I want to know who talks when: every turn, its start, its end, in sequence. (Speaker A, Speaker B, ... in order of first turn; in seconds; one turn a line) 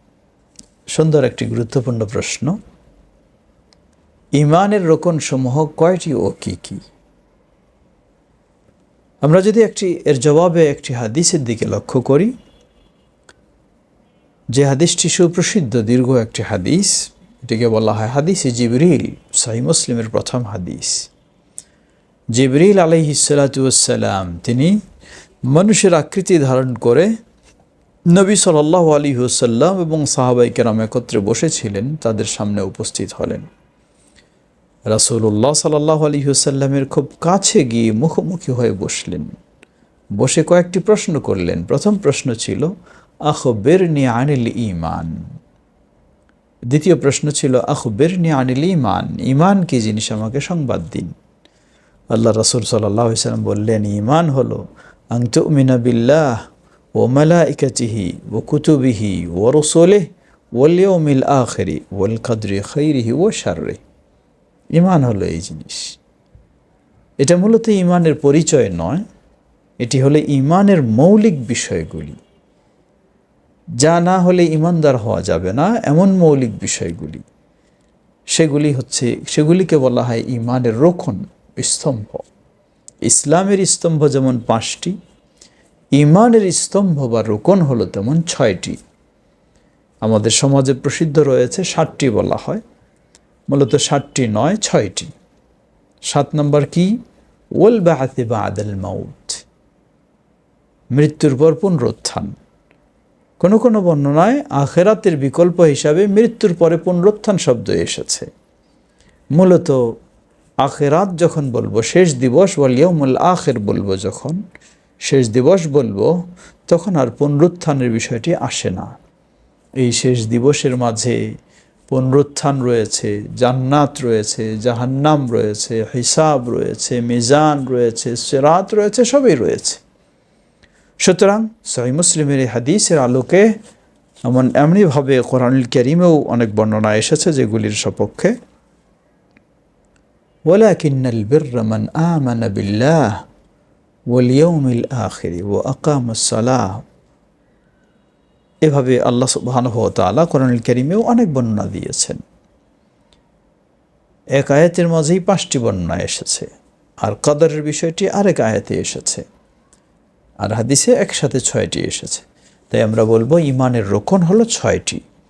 Speaker A: 0.9-2.5
Speaker A: 4.4-6.8
Speaker A: 9.2-12.3
Speaker A: 14.5-21.1
Speaker A: 22.3-24.8
Speaker A: 25.5-27.1
Speaker A: 28.1-33.5
Speaker A: 34.9-39.3
Speaker A: 40.2-42.7
Speaker A: 43.3-45.1
Speaker A: 46.7-51.1
Speaker A: 52.1-56.4
Speaker A: 57.0-63.8
Speaker A: 64.7-66.0
Speaker A: 67.2-69.0
Speaker A: 69.8-72.2
Speaker A: 73.8-77.2
Speaker A: 78.3-82.2
Speaker A: 83.0-85.0
Speaker A: 86.0-88.8
Speaker A: 90.0-92.6
Speaker A: 93.5-95.1
Speaker A: 96.1-96.9
Speaker A: 97.6-99.4
Speaker A: 100.9-102.3
Speaker A: 103.4-108.3
Speaker A: 109.3-109.8
Speaker A: 110.6-114.4
Speaker A: 115.0-116.1
Speaker A: 116.7-119.0
Speaker A: 119.8-121.2
Speaker A: 121.9-129.8
Speaker A: 131.0-133.5
Speaker A: 134.2-138.3
Speaker A: 140.4-143.2
Speaker A: 144.1-146.8
Speaker A: 148.6-152.2
Speaker A: 154.4-156.5
Speaker A: 157.0-159.2
Speaker A: 160.4-165.0